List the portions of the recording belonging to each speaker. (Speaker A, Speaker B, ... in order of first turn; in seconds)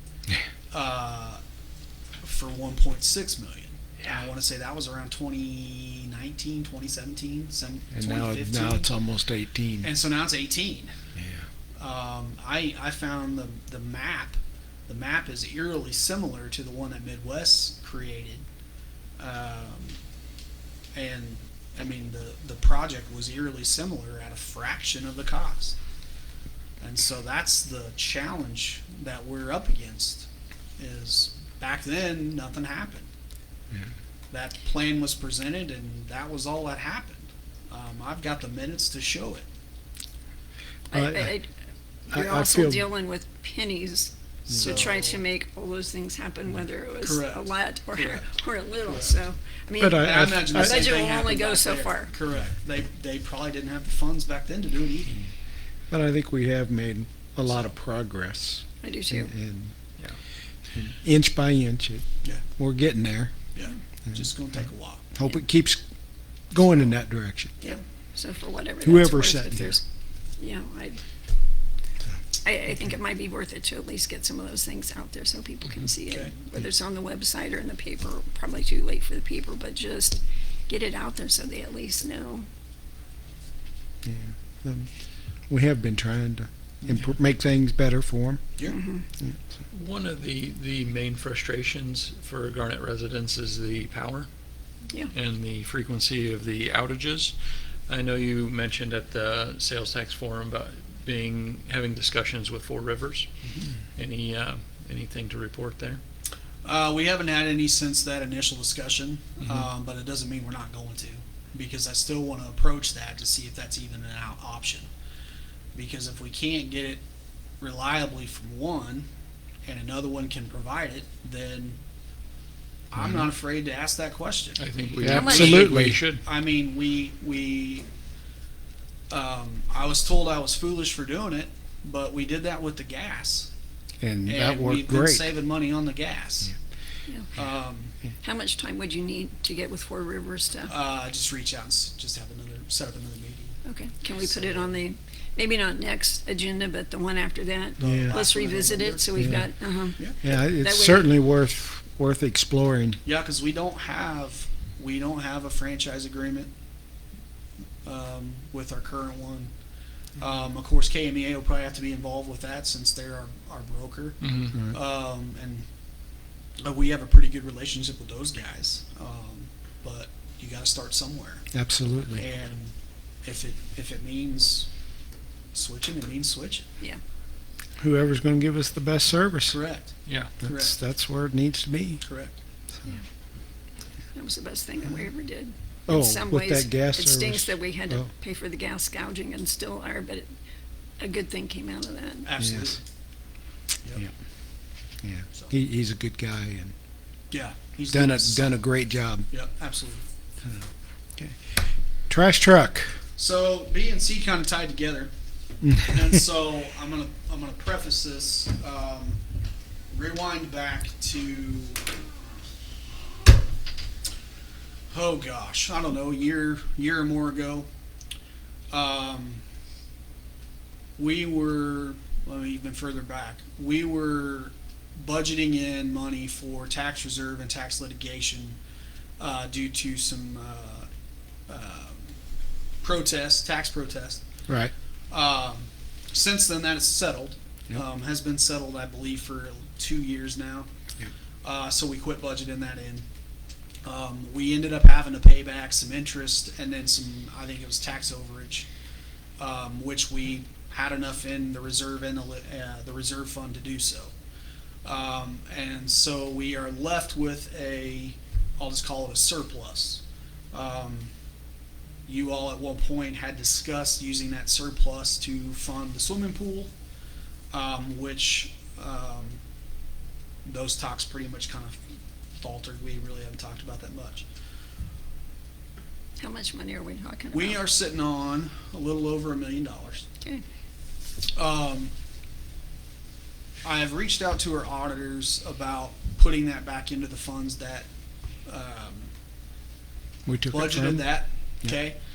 Speaker A: 0.7-1.4, 2.2-8.9, 9.8-10.9, 11.8-18.4, 19.2-20.0, 20.9-25.8, 26.8-33.1, 34.3-39.5, 44.5-45.2, 47.0-48.3, 48.8-49.2, 50.0-55.2, 57.4-57.7, 63.5-65.0, 103.4-103.7, 106.6-114.9, 115.8-117.0, 117.6-119.1, 119.7-121.8, 122.9-124.6, 125.3-127.9, 129.1-133.5, 134.2-136.6, 137.3-137.9, 140.7-143.6, 144.1-144.8, 147.8-149.4, 153.0-156.5, 157.8-159.5, 160.2-165.7, 166.6-171.4, 172.2-174.7, 175.5-176.7, 179.5-180.8, 182.0-182.4, 192.2-192.8, 197.3-198.6, 199.3-200.1, 203.2-205.1, 205.8-209.2, 209.9-211.9, 214.9-217.7, 218.7-219.4, 221.0-228.6, 229.2-230.9, 231.5-232.2, 232.8-234.2, 235.1-240.7, 241.4-243.1, 243.8-248.7, 249.4-254.1, 254.8-261.1, 262.1-266.7, 267.5-269.4, 270.4-271.8, 272.4-274.2, 277.3-280.1, 281.4-281.9, 283.6-287.9, 288.5-289.1, 290.5-292.0
Speaker B: 7.9-9.9, 11.2-11.4, 40.9-41.4, 42.1-42.9, 44.5-44.8, 49.8-50.9, 55.9-59.7, 60.8-63.3, 65.1-65.8, 66.5-67.5, 68.8-69.8, 84.0-84.9, 85.5-88.5, 123.0-123.3, 125.0-126.0, 134.0-135.3, 147.8-148.2, 149.2-153.0, 171.5-172.2, 177.8-179.6, 180.4-182.0, 185.9-188.1, 192.4-192.8, 195.0-196.7, 197.9-199.3, 200.4-203.0, 205.6-206.2, 290.3-291.1
Speaker C: 40.9-41.5, 42.1-52.1, 58.8-59.3, 68.2-69.8, 70.4-71.0, 72.4-82.5, 88.7-89.1, 125.1-125.6, 138.2-140.7, 143.7-151.1, 184.1-190.3, 191.0-192.3, 276.2-277.6
Speaker D: 89.7-94.3, 95.1-97.3, 97.9-103.3, 104.0-106.0, 124.6-126.2, 164.2-164.6